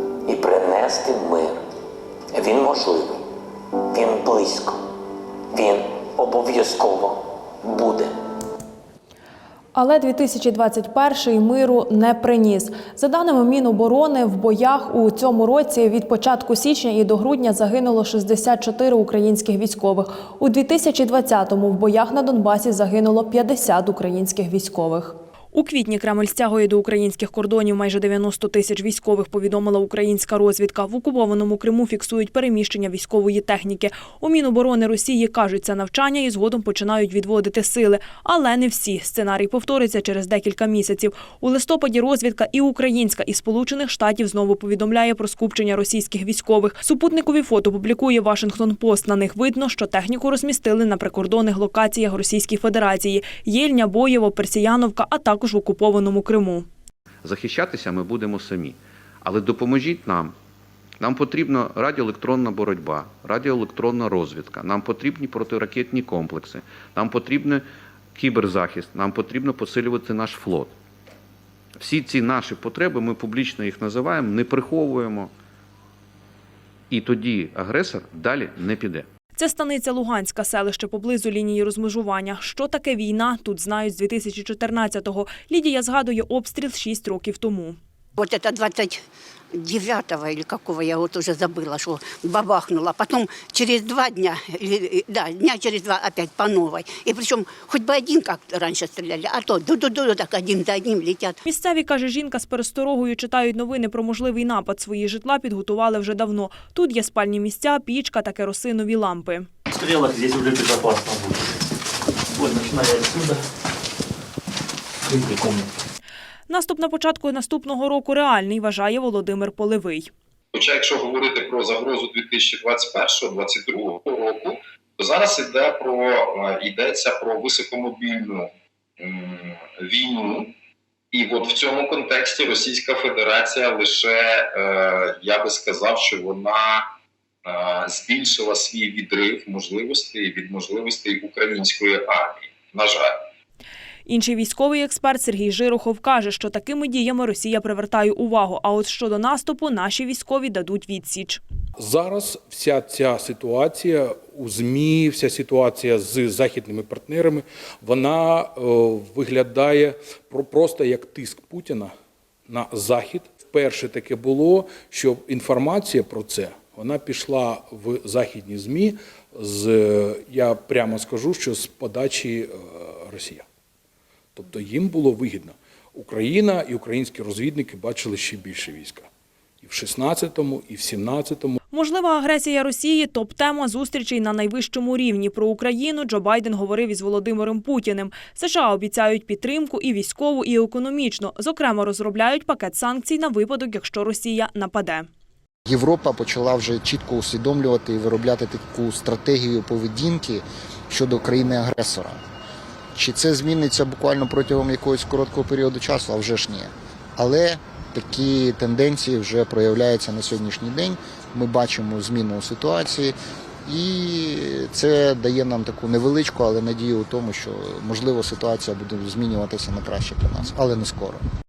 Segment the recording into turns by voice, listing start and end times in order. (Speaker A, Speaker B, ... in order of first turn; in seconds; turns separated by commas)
Speaker A: 0.3-1.6, Speaker A: 2.3-3.2, Speaker A: 3.9-4.8, Speaker A: 5.5-8.1, Speaker B: 9.8-56.7, Speaker C: 57.2-60.4, Speaker C: 61.0-70.7, Speaker C: 71.8-75.3, Speaker C: 76.9-79.1, Speaker B: 79.3-87.8, Speaker D: 88.2-89.0, Speaker D: 89.5-101.3, Speaker B: 101.5-109.5, Speaker E: 109.7-111.7, Speaker E: 112.3-113.4, Speaker E: 115.1-115.7, Speaker B: 116.5-120.1, Speaker F: 120.5-130.5, Speaker F: 131.1-136.8, Speaker F: 137.4-143.1, Speaker B: 144.1-151.4, Speaker G: 151.8-161.9, Speaker G: 162.5-173.4, Speaker G: 174.4-179.1, Speaker G: 179.6-181.6, Speaker B: 181.7-195.1, Speaker H: 195.7-202.2, Speaker H: 203.0-213.2, Speaker H: 213.7-221.2